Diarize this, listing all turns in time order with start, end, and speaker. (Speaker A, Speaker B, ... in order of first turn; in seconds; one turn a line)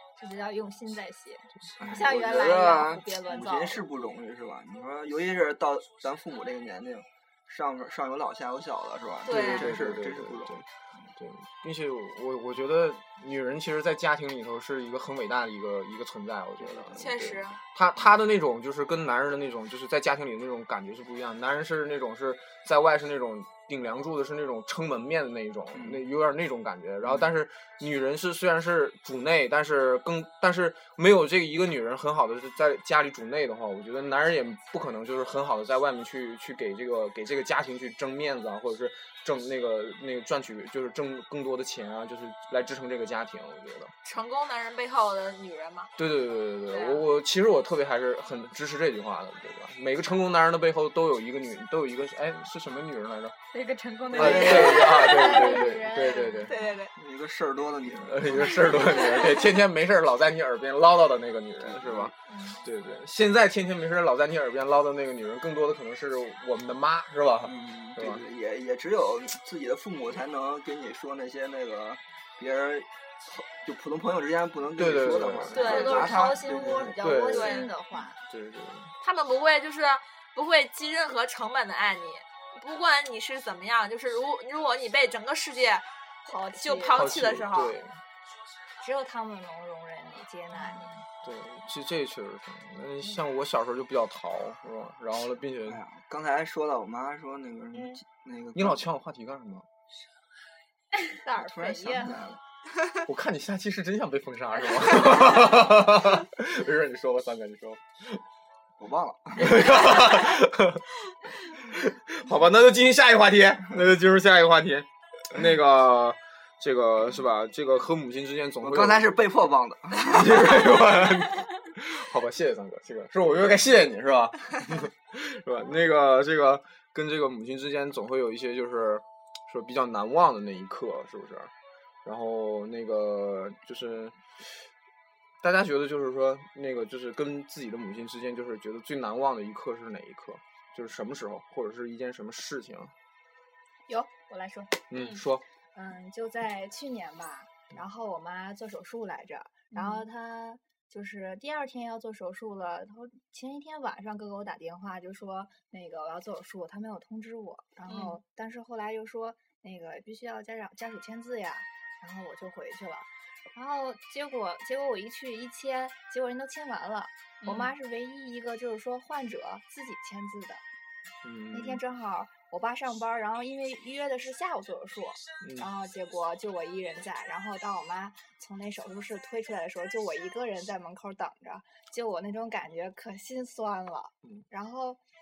Speaker A: 0.2-3.8
Speaker B: 1.8-10.5
Speaker C: 9.2-9.7
Speaker D: 9.3-43.9
Speaker B: 16.6-17.0
Speaker C: 16.9-17.6
Speaker B: 25.7-26.0
Speaker C: 44.0-45.9
Speaker D: 46.0-53.4
Speaker C: 46.7-47.0
Speaker E: 53.5-55.6
Speaker D: 54.1-56.5
Speaker A: 54.2-56.5
Speaker C: 56.5-56.9
Speaker B: 57.0-59.0
Speaker D: 58.0-68.2
Speaker B: 61.6-62.1
Speaker A: 62.3-62.6
Speaker B: 67.4-77.0
Speaker D: 74.8-77.7
Speaker C: 75.5-76.1
Speaker A: 75.6-78.2
Speaker C: 77.3-77.7
Speaker D: 78.2-78.9
Speaker C: 79.0-85.9
Speaker A: 86.3-87.1
Speaker C: 86.6-87.8
Speaker D: 86.9-88.0
Speaker A: 88.8-91.0
Speaker D: 91.2-95.8
Speaker B: 95.7-98.8
Speaker D: 98.5-99.7
Speaker A: 101.2-102.2
Speaker B: 101.3-102.4
Speaker D: 103.0-108.2
Speaker B: 108.8-110.0
Speaker D: 109.4-110.8
Speaker D: 111.7-119.0
Speaker B: 118.6-120.8
Speaker D: 120.0-131.5
Speaker D: 132.1-134.2
Speaker D: 135.4-142.9
Speaker A: 143.9-144.8
Speaker D: 144.9-145.4
Speaker C: 144.9-145.2
Speaker A: 145.8-170.6
Speaker C: 149.7-150.0
Speaker C: 157.9-158.2
Speaker C: 167.4-167.7
Speaker D: 171.2-171.8
Speaker A: 171.5-185.0
Speaker D: 175.4-175.7